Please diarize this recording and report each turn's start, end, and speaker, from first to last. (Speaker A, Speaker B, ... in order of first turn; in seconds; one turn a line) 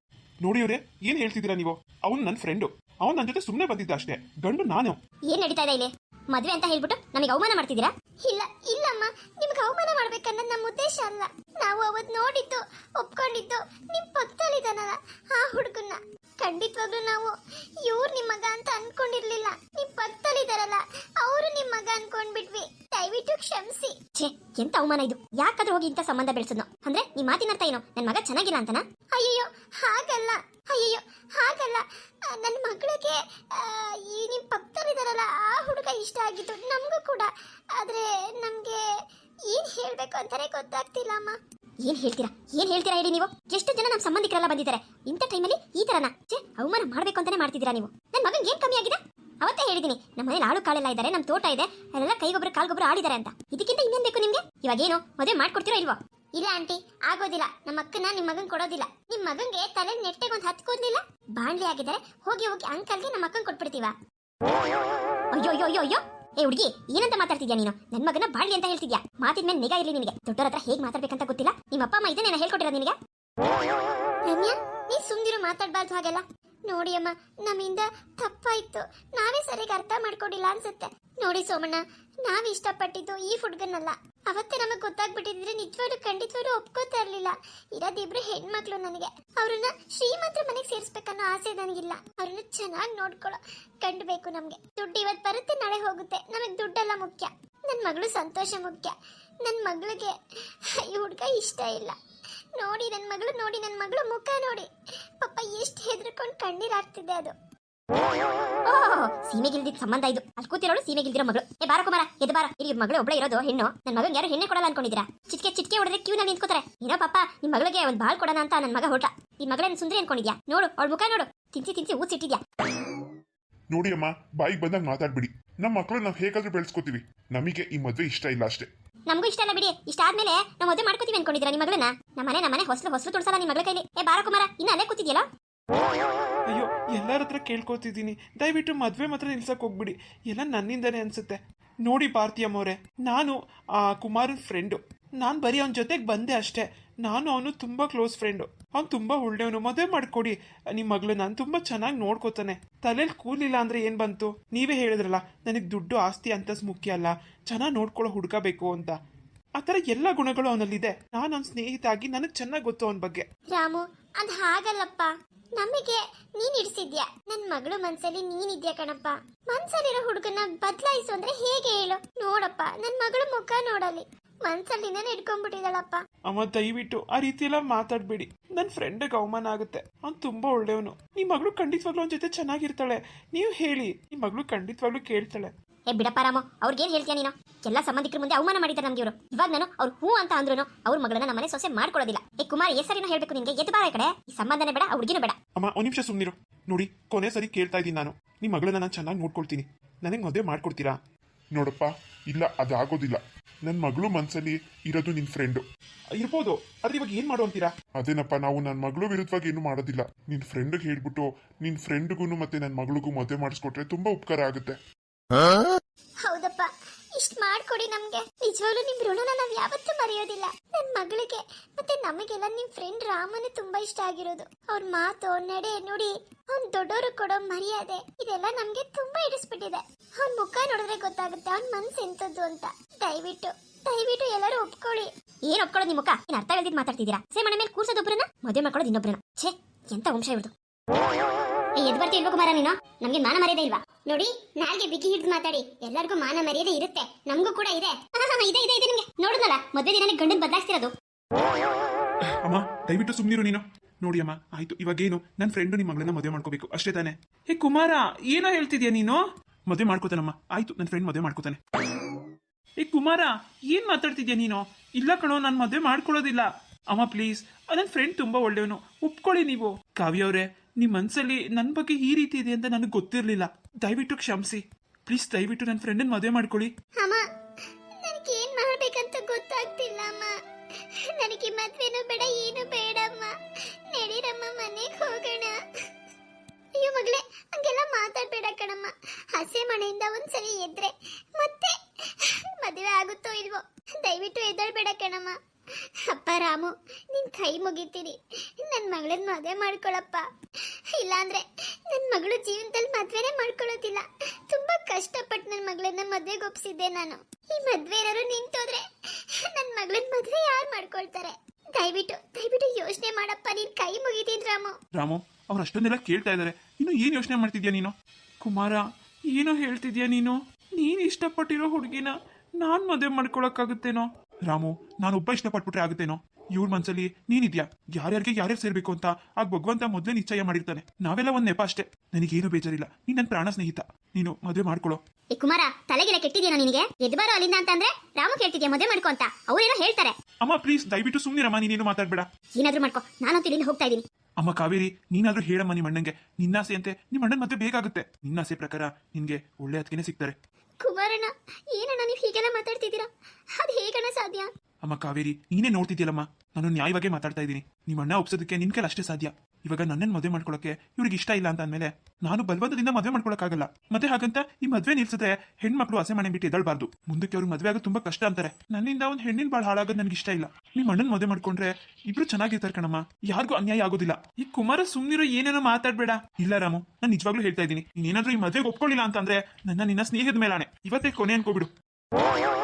Speaker A: 0.4-5.0
Speaker B: 5.3-38.8
Speaker B: 39.4-63.9
Speaker B: 65.3-73.0
Speaker B: 74.2-100.1
Speaker B: 100.8-102.0
Speaker B: 102.6-104.7
Speaker B: 105.2-107.3
Speaker B: 108.7-122.4
Speaker C: 123.7-128.7
Speaker B: 129.1-135.2
Speaker A: 136.5-158.9
Speaker A: 159.6-163.2
Speaker B: 163.5-176.0
Speaker A: 176.3-185.5
Speaker B: 185.9-195.3
Speaker A: 195.6-201.0
Speaker C: 195.6-195.9
Speaker C: 201.5-205.6
Speaker A: 206.2-207.7
Speaker C: 208.0-214.8
Speaker B: 216.2-240.5
Speaker B: 241.8-250.9
Speaker A: 252.4-261.6
Speaker A: 262.8-276.7
Speaker B: 278.0-280.3
Speaker B: 281.1-283.3
Speaker B: 283.9-285.6
Speaker B: 286.8-295.4
Speaker B: 296.1-300.2
Speaker B: 300.9-308.8
Speaker B: 309.4-314.8
Speaker A: 314.9-318.8
Speaker A: 319.3-335.0
Speaker B: 335.3-340.1
Speaker A: 340.4-342.2
Speaker C: 340.5-342.1
Speaker B: 342.5-344.0
Speaker C: 344.4-347.7
Speaker A: 344.8-350.3
Speaker B: 350.8-353.1
Speaker B: 353.6-354.5
Speaker A: 354.8-381.7